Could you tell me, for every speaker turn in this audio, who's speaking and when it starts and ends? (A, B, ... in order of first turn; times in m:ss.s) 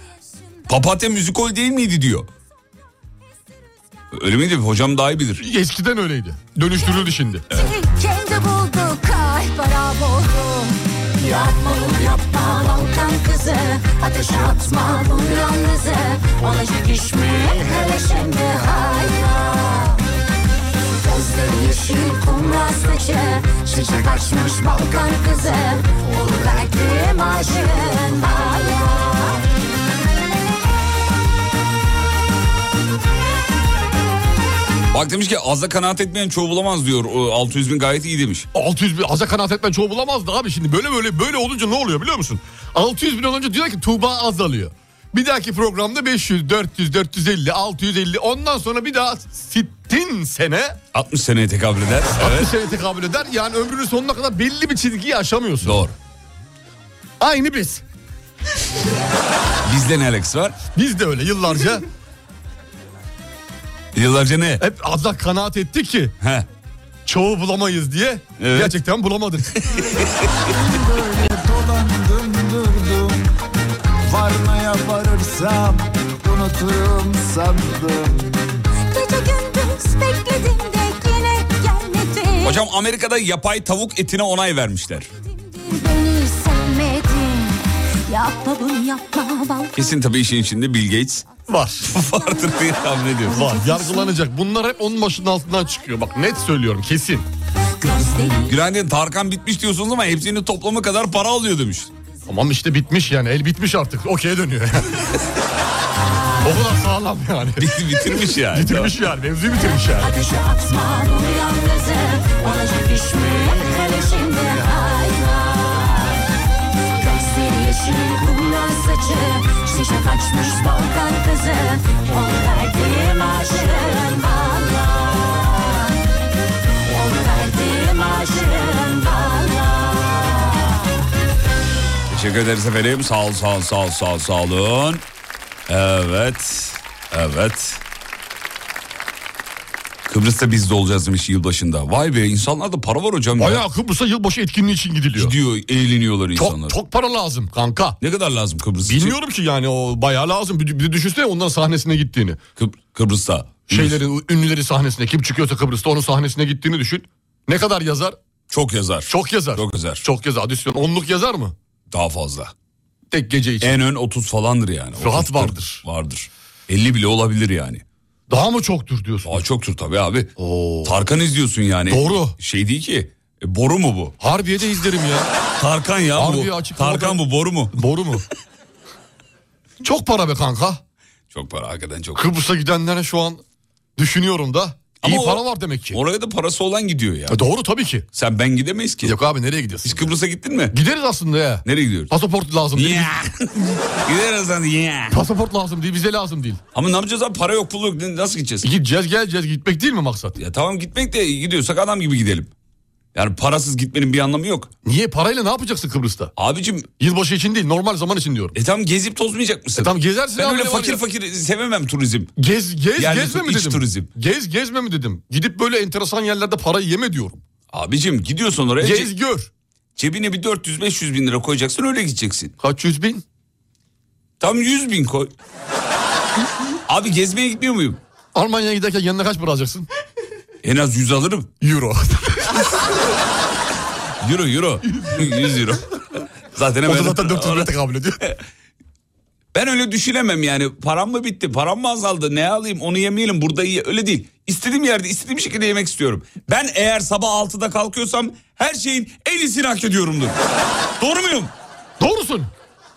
0:00.7-0:02.3 A
0:04.1-0:05.4 A
0:05.4-0:07.5 B
0:07.5-0:20.0 C
0:21.0-0:29.4 C
0:34.9-0:38.4 A
0:38.5-0:50.8 B
0:50.9-0:52.5 A
0:52.2-0:55.8 B
0:55.6-0:55.9 A
0:57.2-0:57.8 B
0:59.6-1:00.5 A
1:00.7-1:01.8 B
1:03.9-1:04.6 A
1:04.6-1:06.1 B
1:07.0-1:09.6 B
1:08.4-1:08.7 A
1:09.5-1:10.5 A
1:10.4-1:13.2 D
1:14.1-1:18.4 D
1:18.9-1:22.6 C
1:22.4-1:25.1 A
1:25.4-1:29.7 C
1:29.8-1:31.2 A
1:31.5-1:31.9 B
1:31.8-1:33.4 A
1:33.3-1:37.3 B
1:33.4-1:34.1 C
1:37.8-1:38.5 C
1:38.4-1:41.9 A
1:42.3-1:45.0 B
1:46.4-1:50.2 B
1:47.6-1:48.9 A
1:49.6-1:56.2 C
1:57.0-2:05.9 C
2:06.8-2:10.8 C
2:12.1-2:15.0 A
2:15.7-2:17.8 A
2:20.0-2:23.6 A
2:23.4-2:25.3 B
2:25.2-2:26.8 A
2:26.3-2:28.0 B
2:28.0-2:29.1 A
2:28.8-2:32.4 B
2:32.6-2:34.0 A
2:33.7-2:38.2 B
2:38.5-2:40.0 A
2:39.1-2:41.5 B
2:41.9-2:42.5 A
2:43.1-2:43.8 B
2:43.6-2:47.8 A
2:45.0-2:45.8 B
2:48.3-2:49.4 B
2:49.2-2:50.3 A
2:50.4-2:51.0 B
2:50.8-2:54.1 A
2:51.9-2:52.4 B
2:54.2-2:55.3 B
2:55.6-2:57.7 A
2:56.1-2:57.2 B
2:57.7-2:58.2 B
2:59.8-3:00.8 B
3:01.3-3:02.2 A
3:02.1-3:03.4 B
3:04.0-3:06.0 B
3:05.0-3:07.4 A
3:07.3-3:08.0 B
3:08.1-3:09.2 A
3:09.0-3:10.1 B
3:09.8-3:10.8 A
3:10.7-3:13.2 B
3:11.6-3:12.1 A
3:12.7-3:15.2 A
3:15.1-3:16.6 B
3:16.7-3:18.7 A
3:18.6-3:20.3 B
3:20.4-3:22.5 A
3:23.1-3:24.7 A
3:24.8-3:26.3 B
3:26.4-3:26.9 A
3:27.0-3:28.5 B
3:28.5-3:32.3 A
3:29.8-3:31.0 B
3:32.4-3:37.4 B
3:33.0-3:34.1 A
3:37.7-3:39.1 A
3:38.8-3:39.5 B
3:40.0-3:42.5 A
3:42.6-3:43.2 B
3:44.4-3:45.3 A
3:46.9-3:48.0 A
3:48.3-3:49.9 B
3:50.6-3:51.5 A
3:51.6-3:52.6 B
3:54.2-3:55.9 A
3:55.0-3:55.3 B
3:56.5-3:57.7 A
3:56.8-3:58.2 B
3:59.5-4:10.3 A
4:11.0-4:11.5 A
4:12.0-4:12.5 B